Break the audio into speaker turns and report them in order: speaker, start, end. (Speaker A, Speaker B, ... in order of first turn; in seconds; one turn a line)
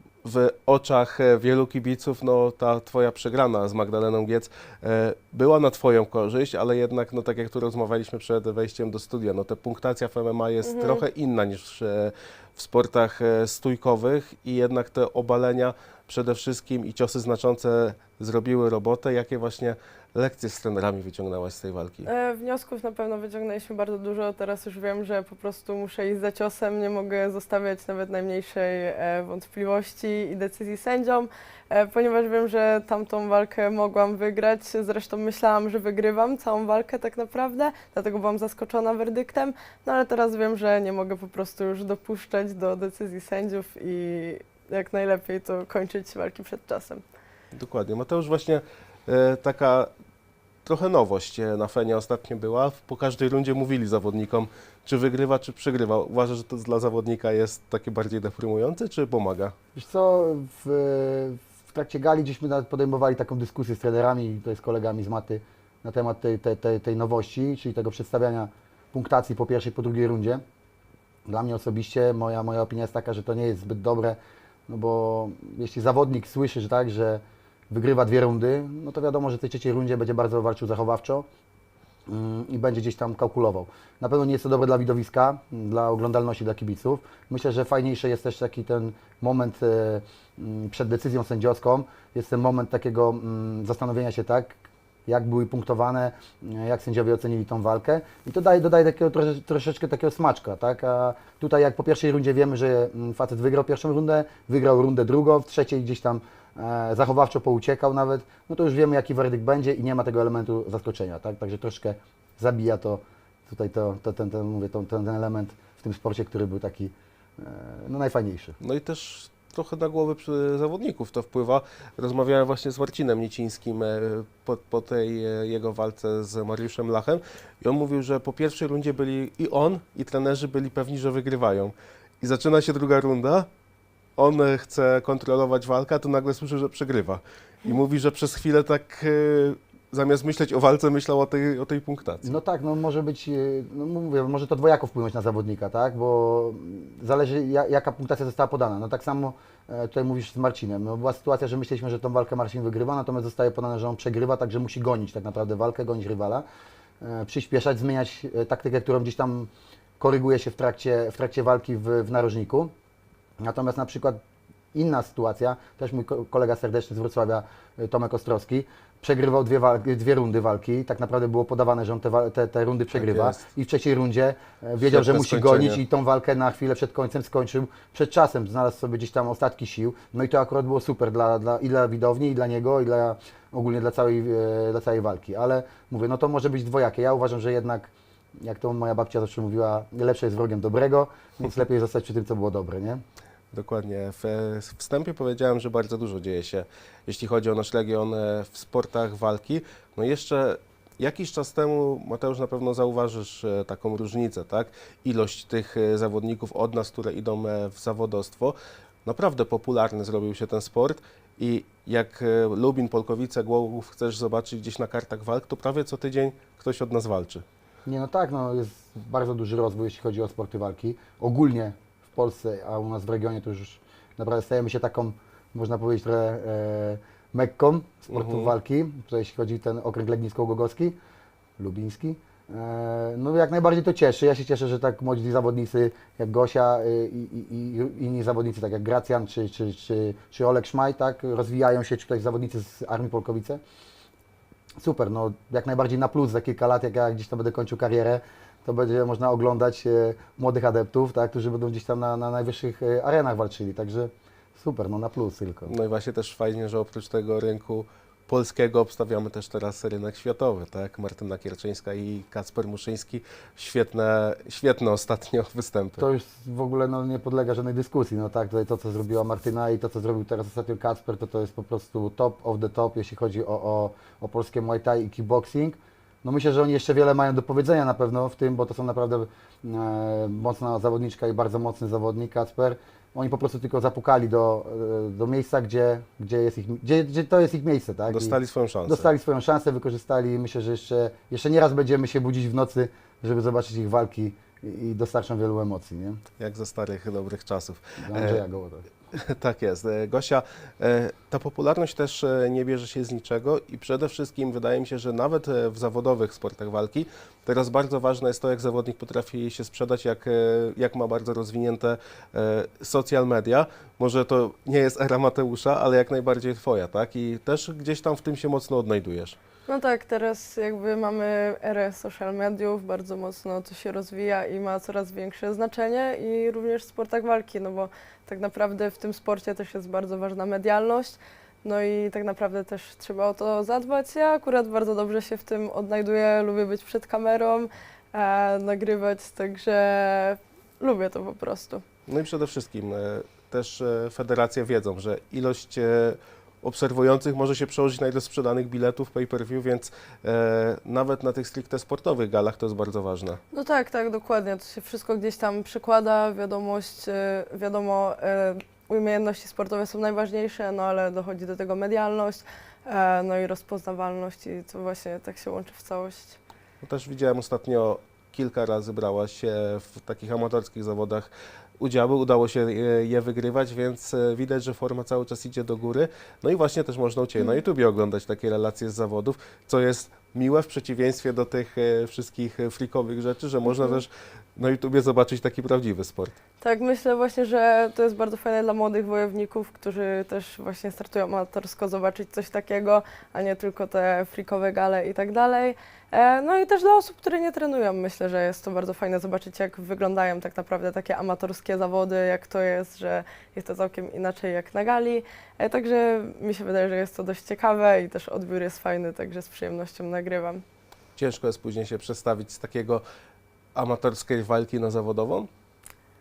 Speaker A: 0.2-22.1
Speaker B: 10.6-11.0
Speaker B: 22.0-47.0
Speaker A: 47.5-49.9
Speaker A: 50.6-59.5
Speaker C: 59.7-70.4
Speaker C: 71.2-81.2
Speaker C: 82.1-118.6
Speaker A: 118.6-133.5
Speaker A: 134.2-142.4
Speaker C: 142.2-156.4
Speaker C: 157.0-162.7
Speaker C: 163.4-164.2
Speaker C: 164.7-193.0
Speaker A: 172.9-173.5
Speaker A: 174.8-175.8
Speaker A: 193.5-217.4
Speaker C: 217.8-231.0
Speaker A: 228.1-228.5
Speaker C: 231.6-243.6
Speaker C: 244.8-255.7
Speaker A: 255.7-266.0
Speaker C: 266.0-296.2
Speaker A: 288.1-289.1
Speaker A: 296.4-298.4
Speaker C: 298.0-298.9
Speaker A: 299.1-319.4
Speaker B: 319.7-341.8
Speaker A: 342.1-353.4
Speaker B: 353.5-366.4
Speaker A: 366.8-386.4
Speaker B: 386.6-410.6
Speaker A: 411.1-413.0
Speaker A: 413.7-415.5